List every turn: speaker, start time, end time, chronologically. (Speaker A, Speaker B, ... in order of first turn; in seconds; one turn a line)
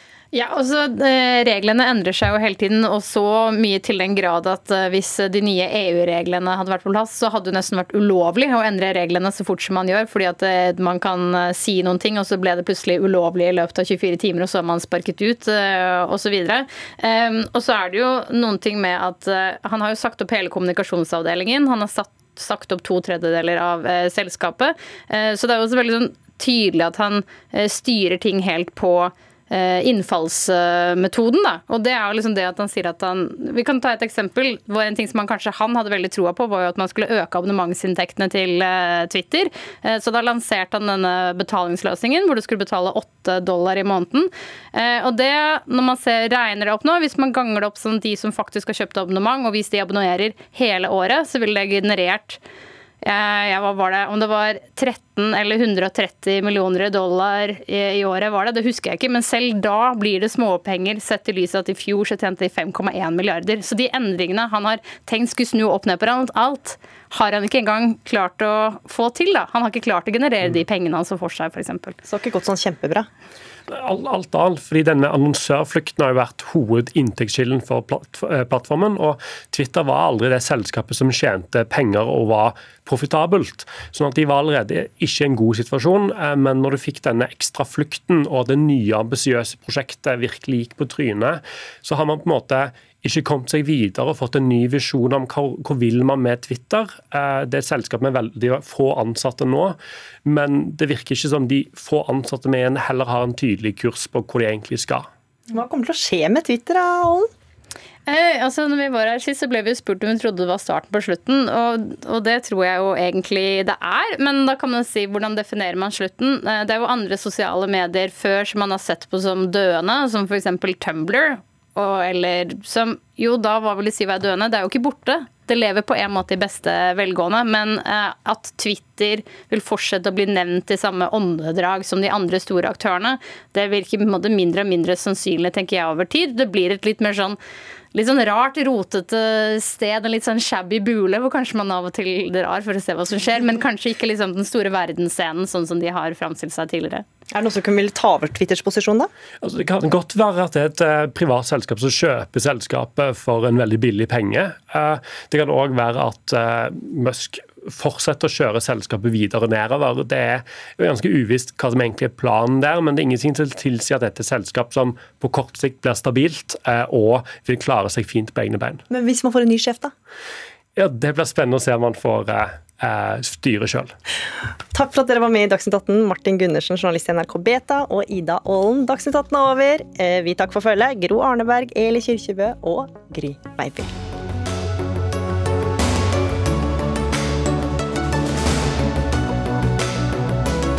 Speaker A: 0.3-52.4
Speaker A: 53.0-72.0
Speaker B: 72.0-73.1
Speaker C: 73.7-105.1
Speaker B: 105.5-107.3
Speaker A: 108.1-137.4
Speaker A: 137.9-147.1
Speaker B: 147.3-149.1
Speaker C: 149.4-168.8
Speaker B: 168.9-169.9
Speaker C: 170.8-173.9
Speaker B: 174.7-183.9